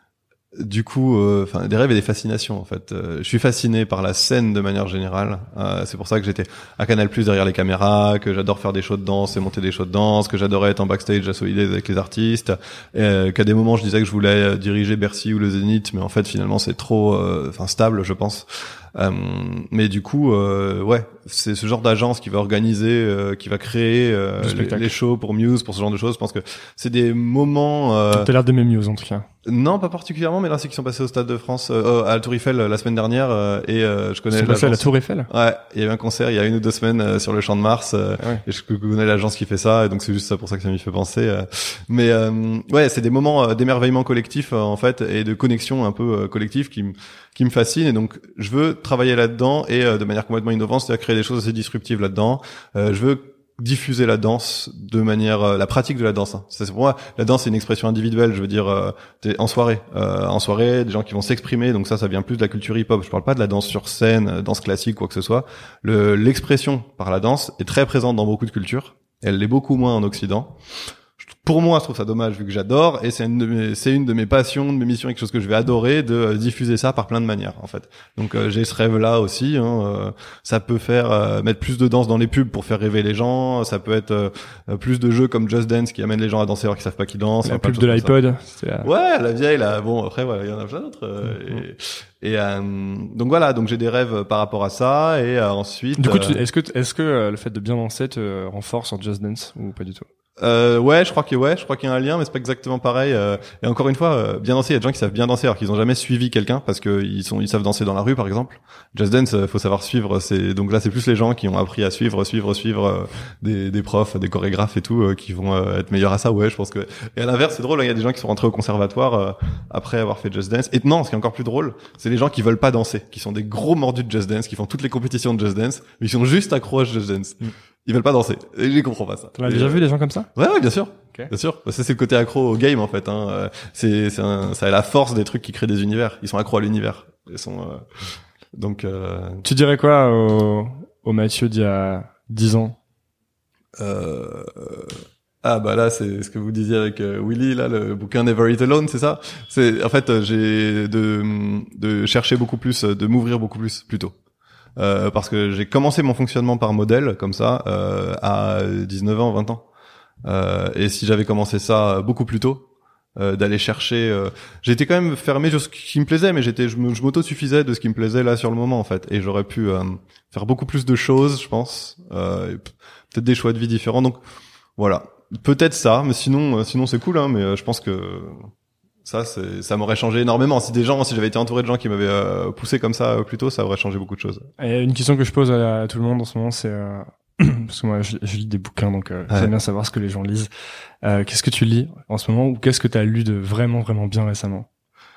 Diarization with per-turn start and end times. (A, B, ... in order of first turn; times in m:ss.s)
0:00.6-0:28.3 A
0:24.4-0:24.9 B
0:28.1-0:29.3 B
0:29.4-1:10.6 A
0:34.3-0:35.3 B
1:11.2-1:28.2 A
1:27.4-1:28.9 B
1:28.8-1:36.4 A
1:36.0-1:40.0 B
1:40.4-2:09.8 A
2:09.4-2:10.3 B
2:10.4-2:17.9 A
2:18.5-2:19.4 A
2:19.4-2:22.8 B
2:23.8-2:34.2 A
2:34.8-2:39.6 A
2:40.2-2:54.2 A
2:54.8-2:58.5 A
2:59.0-3:04.5 A
3:04.6-3:10.5 B
3:11.0-3:14.7 B